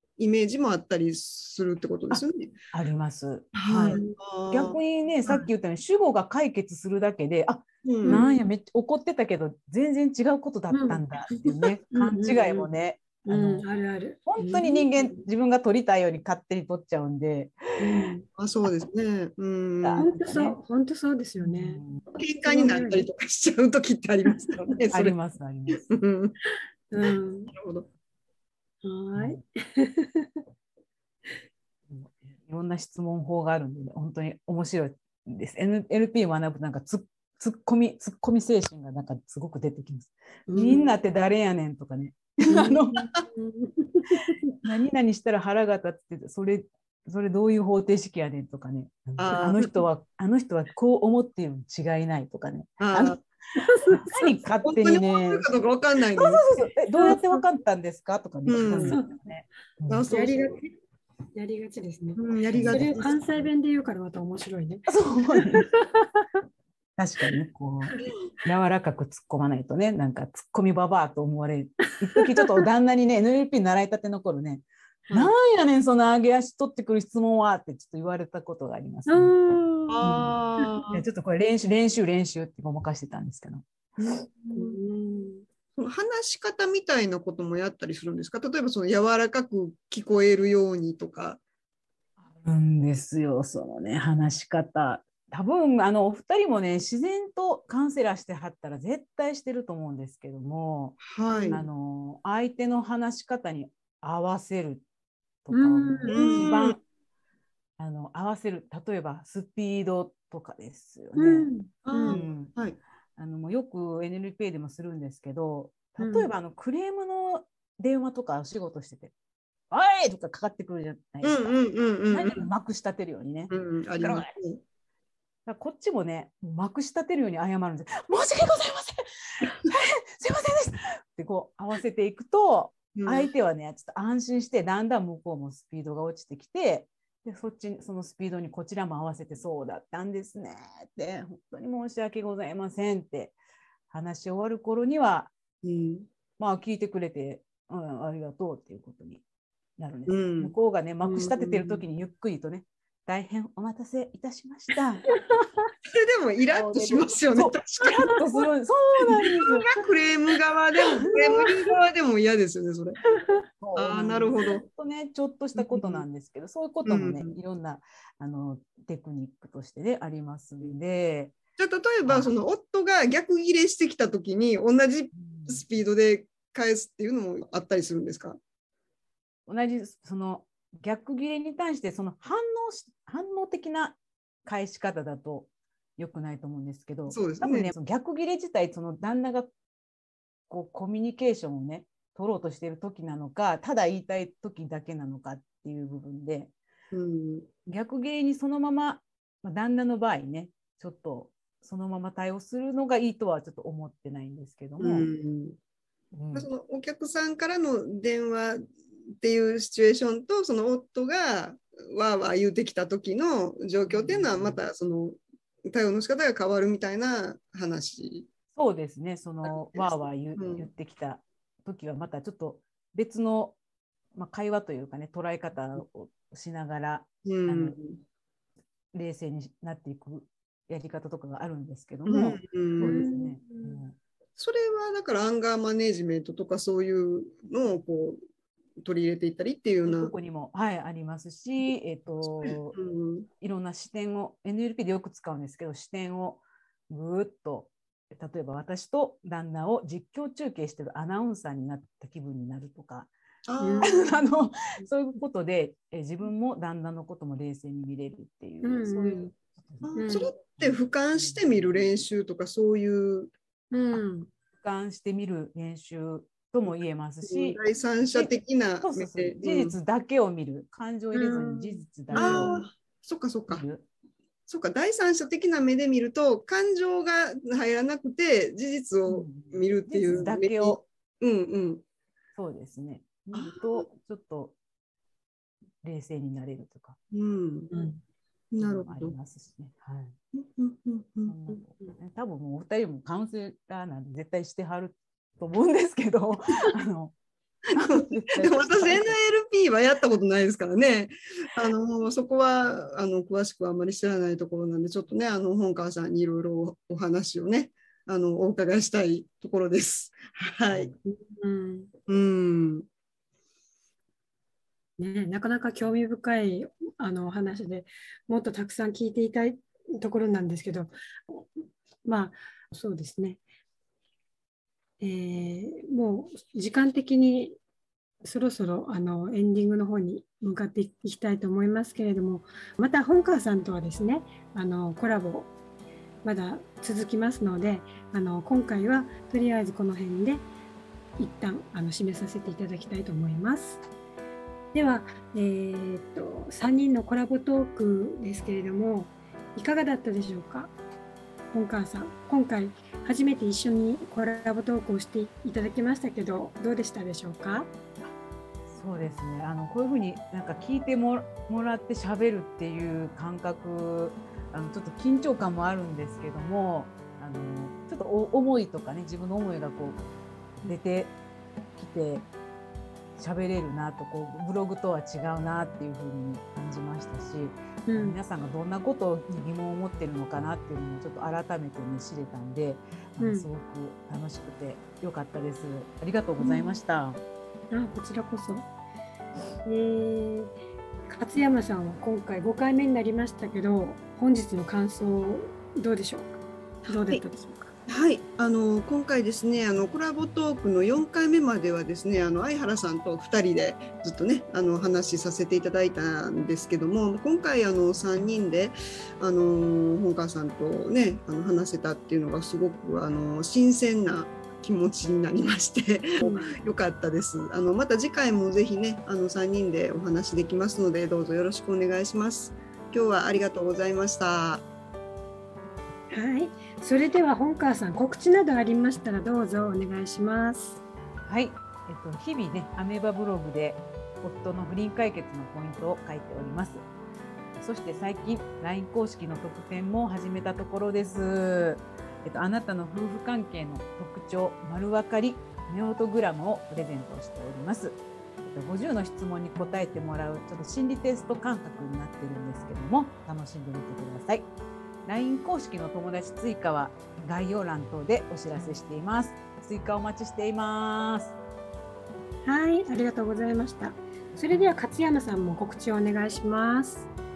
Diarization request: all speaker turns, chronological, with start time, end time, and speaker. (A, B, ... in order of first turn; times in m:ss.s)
0:00.2-0:02.5 A
0:02.1-0:13.6 B
0:03.5-0:05.5 A
0:03.9-0:04.2 C
0:07.8-0:08.2 A
0:08.0-0:08.4 C
0:10.7-0:12.7 C
0:13.2-0:15.2 C
0:14.2-0:17.6 B
0:17.8-0:18.2 C
0:18.4-0:20.0 A
0:19.8-0:20.6 B
0:20.0-0:21.8 C
0:21.4-0:22.0 B
0:22.1-0:25.1 A
0:22.4-0:23.1 C
0:24.9-0:25.9 B
0:25.7-0:26.4 A
0:26.9-0:27.5 C
0:27.5-0:27.9 A
0:28.8-0:30.4 C
0:31.9-0:43.1 B
0:40.5-0:40.9 C
0:42.5-0:44.5 C
0:44.6-0:53.2 B
0:49.2-0:49.7 A
0:52.8-0:53.2 A
0:53.5-0:54.3 C
0:54.0-0:55.4 B
0:54.6-0:56.5 A
0:56.2-1:00.0 B
0:56.9-0:57.4 C
0:58.5-0:59.0 A
0:58.8-0:59.2 C
0:59.9-1:00.6 A
1:00.1-1:00.7 C
1:01.3-1:06.2 C
1:02.2-1:03.2 A
1:02.5-1:03.1 B
1:04.9-1:05.6 B
1:07.0-1:19.3 B
1:12.0-1:12.6 C
1:15.1-1:15.3 A
1:19.1-1:20.7 C
1:19.9-1:21.0 A
1:20.0-1:20.3 B
1:20.9-1:23.6 B
1:24.0-1:24.8 A
1:24.5-1:25.4 C
1:25.8-1:31.4 A
1:32.3-1:44.8 B
1:41.0-1:41.6 A
1:41.3-1:41.6 C
1:45.4-1:46.8 B
1:45.5-1:46.5 C
1:46.1-1:46.8 A
1:47.8-1:51.5 B
1:51.2-1:52.2 C
1:51.8-1:52.8 A
1:52.0-1:52.5 B
1:53.2-1:59.1 B
1:56.0-1:56.3 C
1:59.7-2:01.5 B
2:01.2-2:02.5 A
2:02.1-2:04.3 B
2:03.5-2:04.6 A
2:05.4-2:23.4 B
2:12.9-2:13.3 A
2:23.9-2:25.3 B
2:25.6-2:26.1 A
2:26.4-2:29.2 B
2:29.8-2:35.0 B
2:30.1-2:30.5 A
2:31.0-2:31.8 A
2:35.8-2:38.2 A
2:36.5-2:39.7 B
2:39.2-2:43.0 A
2:43.6-2:51.4 B
2:43.7-2:44.6 A
2:45.6-2:46.0 A
2:46.8-2:47.4 A
2:51.6-2:58.4 A
2:52.0-2:52.3 B
2:55.2-2:55.6 B
2:59.5-3:09.5 B
3:07.1-3:07.7 A
3:10.5-3:16.5 B
3:16.9-3:17.5 A
3:17.7-3:25.1 B
3:24.8-3:25.6 A
3:26.1-3:26.5 B
3:26.3-3:28.6 A
3:29.2-3:38.3 A
3:33.9-3:34.6 B
3:38.5-3:43.6 B
3:39.4-3:40.7 A
3:44.1-3:47.8 B
3:47.2-3:48.0 A
3:48.9-3:54.0 B
3:52.0-3:53.1 A
3:52.8-3:53.8 C
3:54.4-3:58.2 A
3:58.8-4:00.1 A
3:59.8-4:02.8 B
4:02.2-4:03.3 A
4:03.4-4:13.1 B
4:13.5-4:14.2 A
4:13.6-4:14.1 C
4:13.8-4:19.9 B
4:18.6-4:19.3 C
4:19.8-4:23.3 A
4:20.0-4:20.3 C
4:20.6-4:21.8 B
4:23.7-4:24.3 C
4:24.6-4:32.6 B
4:27.2-4:29.8 A
4:31.1-4:32.7 C
4:32.1-4:33.6 A
4:33.5-4:33.8 B
4:34.5-4:41.8 A
4:39.1-4:40.8 B
4:42.4-4:44.5 B
4:43.3-4:43.8 A
4:45.8-4:47.0 B
4:47.1-4:47.7 A
4:47.7-4:48.0 C
4:48.5-4:49.1 A
4:48.6-4:50.2 B
4:50.3-4:51.6 A
4:51.3-4:57.1 B
4:57.7-5:10.9 A
4:57.7-4:59.2 B
5:10.7-5:10.9 B
5:11.0-5:11.9 C
5:12.1-5:12.9 A
5:15.0-5:21.5 C
5:22.0-5:23.4 C
5:25.0-5:27.6 C
5:28.2-5:35.5 C
5:36.2-5:40.4 C
5:41.2-5:43.8 C
5:44.7-5:50.7 C
5:51.5-5:57.7 C
5:58.7-6:10.0 B
6:10.6-6:11.1 B
6:11.7-6:12.2 B
6:13.2-6:27.2 B
6:17.9-6:18.2 C
6:23.2-6:23.5 C
6:26.4-6:26.7 C
6:27.7-6:28.6 C
6:29.6-6:30.5 C
6:31.1-6:36.3 C
6:36.8-6:37.7 C
6:36.9-6:37.2 A
6:37.9-7:04.6 A
6:56.2-6:56.5 C
7:06.1-7:10.8 C
7:11.2-7:16.8 B
7:17.6-7:34.5 B
7:35.0-7:41.4 B
7:42.4-7:47.1 C